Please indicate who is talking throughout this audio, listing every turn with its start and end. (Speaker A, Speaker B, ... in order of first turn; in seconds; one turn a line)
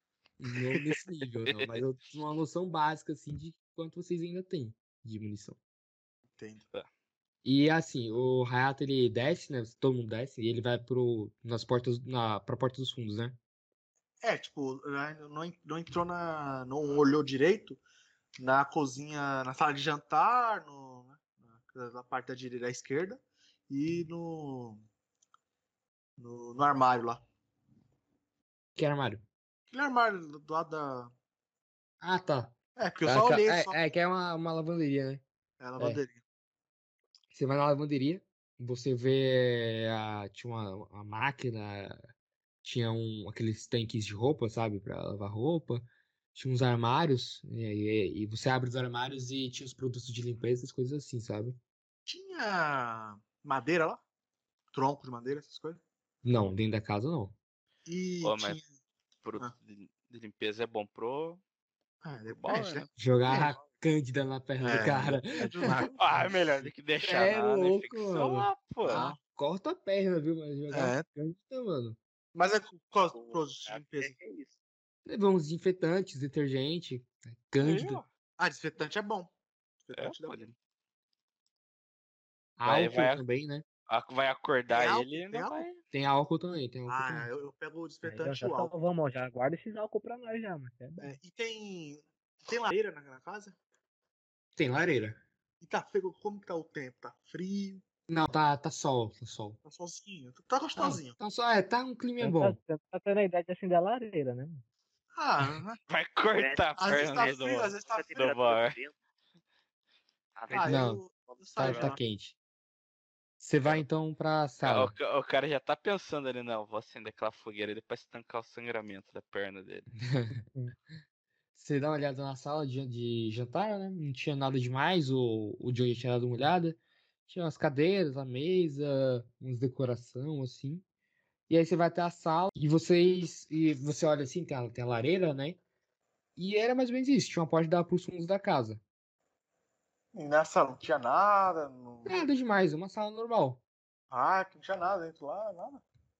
Speaker A: 0.4-5.6
Speaker B: 6.4-6.6
Speaker A: 7.4-13.4
Speaker B: 14.2-17.8
Speaker B: 18.4-24.8
Speaker B: 26.2-27.2
Speaker A: 28.8-29.2
Speaker B: 29.7-31.1
Speaker A: 32.0-35.2
Speaker B: 32.8-33.8
Speaker B: 35.6-36.2
Speaker A: 37.3-42.0
Speaker A: 42.6-51.6
Speaker B: 52.0-54.0
Speaker B: 54.7-55.8
Speaker A: 56.2-57.3
Speaker B: 57.9-58.6
Speaker C: 58.2-58.6
Speaker C: 59.2-61.4
Speaker B: 62.0-63.6
Speaker C: 62.3-62.9
Speaker A: 63.0-65.9
Speaker B: 64.6-66.2
Speaker C: 65.9-69.1
Speaker A: 66.6-68.5
Speaker B: 68.8-69.2
Speaker A: 69.2-72.0
Speaker B: 70.7-71.0
Speaker B: 72.3-74.2
Speaker D: 73.1-74.5
Speaker A: 75.0-78.0
Speaker C: 77.6-78.1
Speaker B: 78.4-79.3
Speaker B: 79.8-80.5
Speaker C: 79.9-80.5
Speaker A: 82.6-83.7
Speaker C: 82.6-83.2
Speaker C: 83.9-85.8
Speaker B: 84.7-85.7
Speaker A: 85.9-87.3
Speaker B: 86.9-88.7
Speaker E: 88.0-91.2
Speaker B: 91.0-93.5
Speaker A: 94.5-95.2
Speaker B: 95.6-97.8
Speaker A: 98.1-99.6
Speaker B: 99.6-101.2
Speaker A: 100.8-102.6
Speaker E: 102.2-104.6
Speaker B: 105.1-105.8
Speaker C: 105.9-108.8
Speaker D: 106.4-107.3
Speaker B: 106.8-108.3
Speaker D: 107.9-108.9
Speaker D: 110.3-111.9
Speaker B: 110.5-112.0
Speaker A: 110.6-111.0
Speaker A: 111.6-112.3
Speaker A: 113.4-114.9
Speaker C: 114.6-119.9
Speaker A: 120.1-120.4
Speaker A: 121.5-130.8
Speaker A: 131.5-135.6
Speaker A: 136.4-138.8
Speaker B: 140.1-142.2
Speaker A: 142.1-143.6
Speaker B: 144.1-145.8